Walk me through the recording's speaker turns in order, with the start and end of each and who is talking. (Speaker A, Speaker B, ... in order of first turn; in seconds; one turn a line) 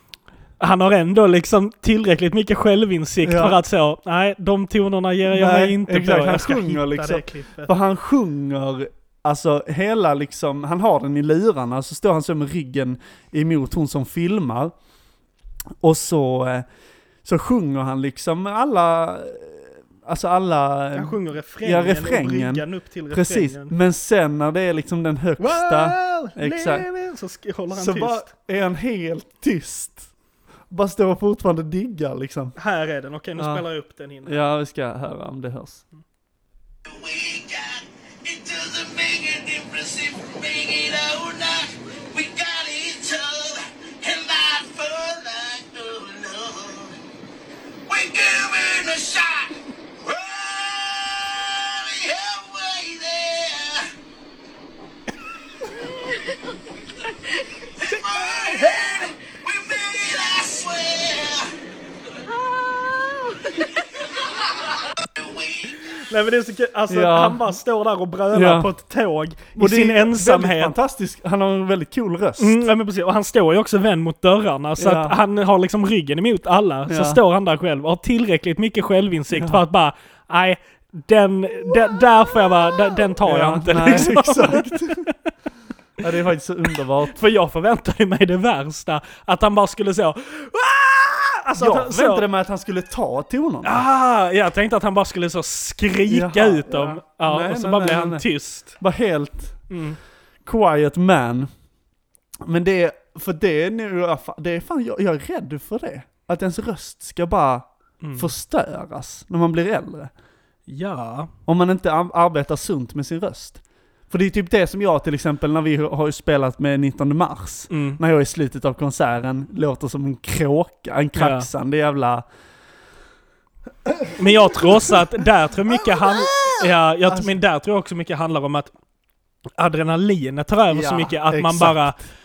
Speaker A: 0.6-7.7
Speaker B: 3.2-3.6
Speaker B: 5.3-14.7
Speaker B: 15.8-16.6
Speaker B: 17.2-26.9
Speaker A: 20.9-23.7
Speaker A: 25.4-28.3
Speaker B: 27.7-30.1
Speaker B: 30.7-32.5
Speaker A: 32.6-34.4
Speaker B: 33.4-33.6
Speaker B: 34.2-35.8
Speaker C: 36.9-47.0
Speaker C: 47.9-53.9
Speaker C: 57.6-61.5
Speaker C: 65.0-65.9
Speaker A: 66.0-70.7
Speaker B: 66.9-67.4
Speaker B: 68.3-68.7
Speaker B: 69.5-72.6
Speaker A: 72.4-85.1
Speaker B: 74.8-75.2
Speaker B: 76.9-77.2
Speaker B: 79.3-79.6
Speaker B: 83.1-85.0
Speaker B: 86.0-87.2
Speaker A: 87.1-92.2
Speaker B: 91.6-93.8
Speaker A: 93.6-98.8
Speaker B: 96.1-98.2
Speaker B: 98.8-99.7
Speaker A: 99.7-100.0
Speaker B: 100.4-101.5
Speaker B: 102.4-110.1
Speaker A: 108.0-108.3
Speaker A: 110.7-111.3
Speaker B: 111.5-122.2
Speaker A: 117.7-118.0
Speaker A: 121.2-121.5
Speaker B: 123.8-125.0
Speaker A: 124.2-128.7
Speaker B: 125.7-127.3
Speaker A: 129.6-132.0
Speaker B: 130.7-131.9